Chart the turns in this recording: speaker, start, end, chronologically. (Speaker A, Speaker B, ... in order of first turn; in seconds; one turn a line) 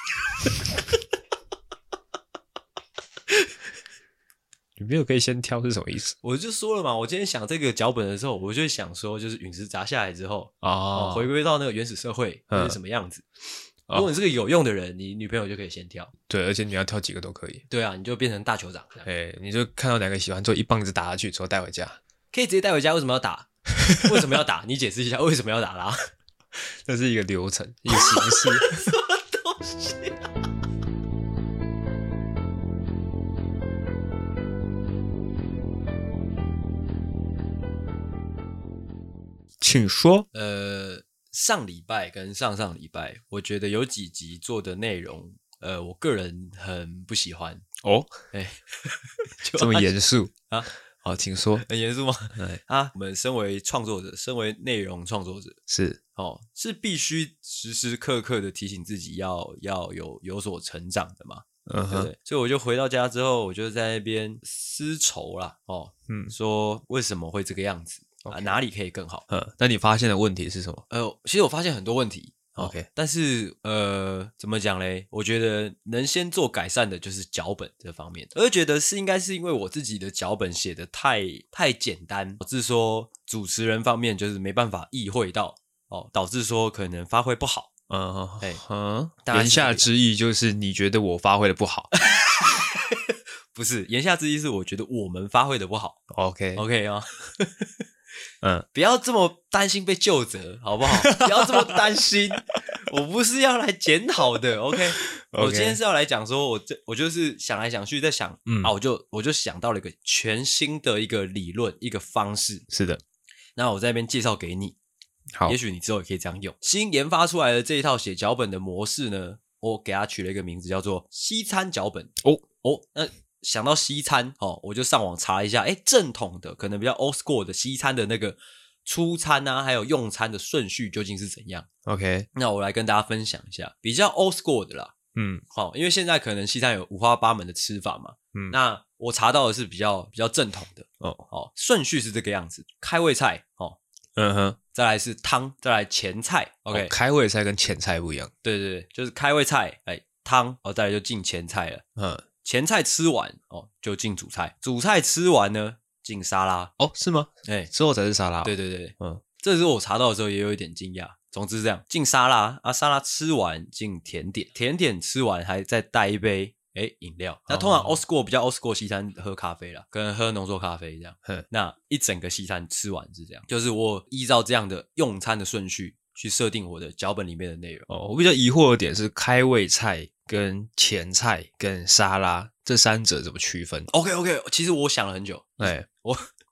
Speaker A: 4.8-6.1
Speaker B: 6.2-13.2
Speaker A: 10.6-11.3
Speaker A: 12.5-12.8
Speaker B: 13.9-16.1
Speaker A: 16.3-17.6
Speaker B: 17.7-19.0
Speaker A: 19.0-22.0
Speaker B: 22.3-26.1
Speaker A: 23.8-24.3
Speaker A: 26.7-28.9
Speaker B: 27.9-30.2
Speaker A: 39.6-40.3
Speaker B: 40.3-47.6
Speaker A: 47.8-48.1
Speaker B: 48.3-49.9
Speaker A: 49.6-50.3
Speaker A: 51.0-51.6
Speaker B: 51.6-55.6
Speaker A: 55.7-56.0
Speaker B: 56.1-69.2
Speaker A: 61.7-62.1
Speaker A: 66.1-66.3
Speaker A: 68.2-68.5
Speaker A: 69.3-70.8
Speaker B: 70.9-87.7
Speaker A: 72.6-72.9
Speaker A: 87.9-91.9
Speaker B: 89.2-89.9
Speaker B: 92.0-96.0
Speaker A: 96.1-96.6
Speaker B: 96.5-97.7
Speaker B: 98.7-112.7
Speaker A: 101.0-101.8
Speaker A: 104.7-105.8
Speaker A: 108.5-108.7
Speaker A: 112.7-113.0
Speaker B: 113.5-114.8
Speaker B: 115.4-131.7
Speaker A: 131.8-132.3
Speaker B: 132.3-134.9
Speaker A: 135.1-135.4
Speaker B: 135.5-143.8
Speaker A: 144.2-144.6
Speaker B: 144.7-146.9
Speaker A: 146.7-148.3
Speaker B: 148.4-151.8
Speaker A: 152.0-152.2
Speaker B: 152.4-156.7
Speaker A: 156.8-159.2
Speaker B: 157.4-157.7
Speaker B: 158.4-177.9
Speaker A: 167.5-168.0
Speaker A: 177.9-183.9
Speaker B: 183.9-186.2
Speaker A: 185.6-185.8